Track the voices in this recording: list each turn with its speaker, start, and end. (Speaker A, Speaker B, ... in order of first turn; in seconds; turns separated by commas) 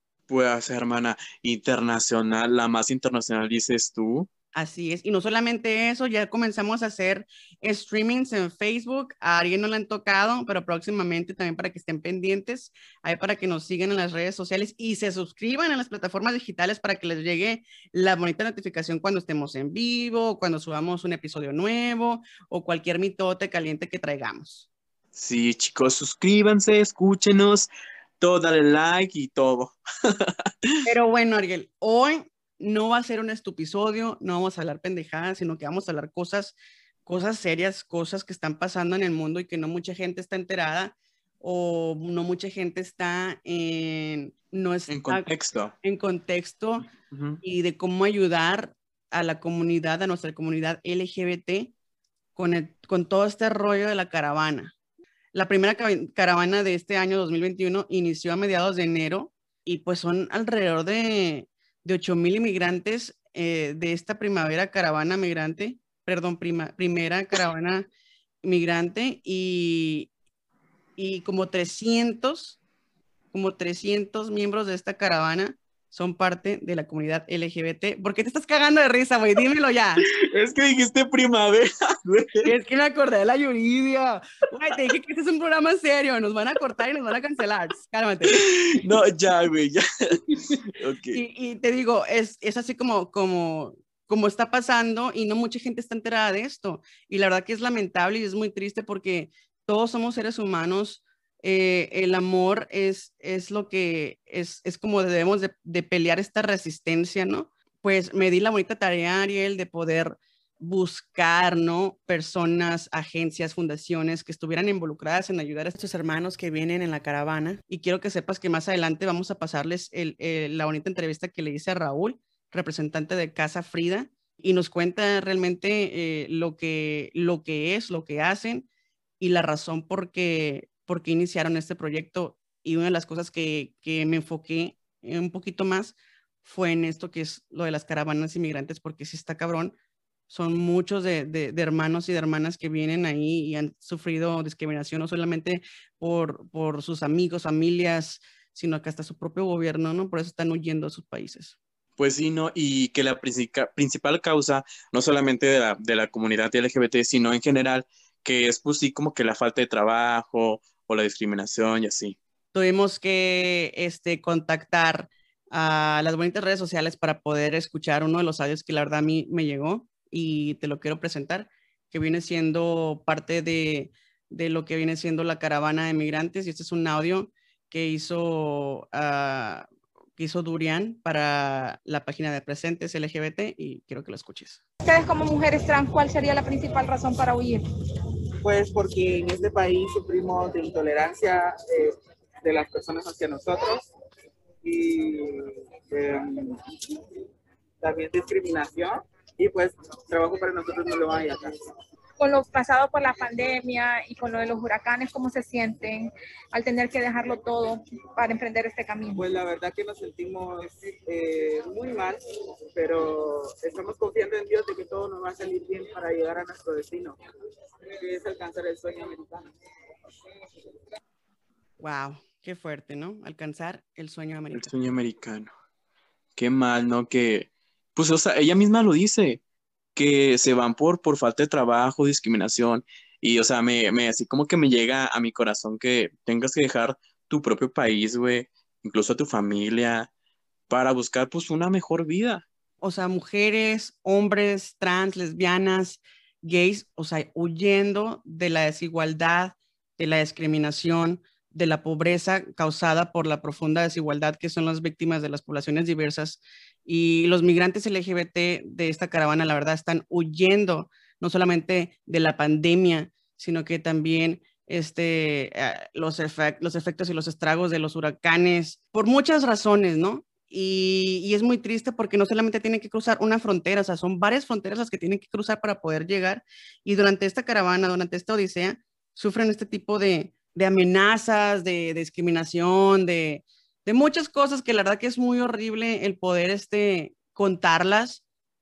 Speaker A: 0.3-4.3, Speaker B: 4.5-24.7, Speaker A: 25.1-30.7, Speaker B: 30.8-45.3, Speaker A: 44.9-45.7, Speaker B: 45.8-46.9, Speaker A: 47.0-47.4, Speaker B: 47.4-51.7, Speaker B: 52.4-54.7, Speaker B: 55.3-67.9, Speaker B: 68.4-70.1, Speaker B: 71.0-72.6, Speaker B: 73.3-80.0, Speaker A: 80.1-82.5, Speaker B: 82.4-88.4, Speaker A: 88.3-91.2, Speaker B: 91.1-128.7, Speaker B: 129.2-139.7, Speaker B: 140.3-151.6, Speaker A: 152.0-162.2, Speaker B: 162.5-184.6, Speaker C: 184.8-187.6, Speaker D: 188.4-193.9, Speaker D: 194.6-196.9, Speaker D: 197.8-201.5, Speaker C: 202.2-209.3, Speaker D: 209.2-212.2, Speaker D: 212.7-217.2, Speaker D: 217.9-219.5, Speaker B: 221.8-224.7, Speaker A: 224.5-225.5, Speaker A: 226.3-229.4, Speaker A: 230.0-240.1, Speaker A: 240.7-242.4, Speaker B: 242.8-288.2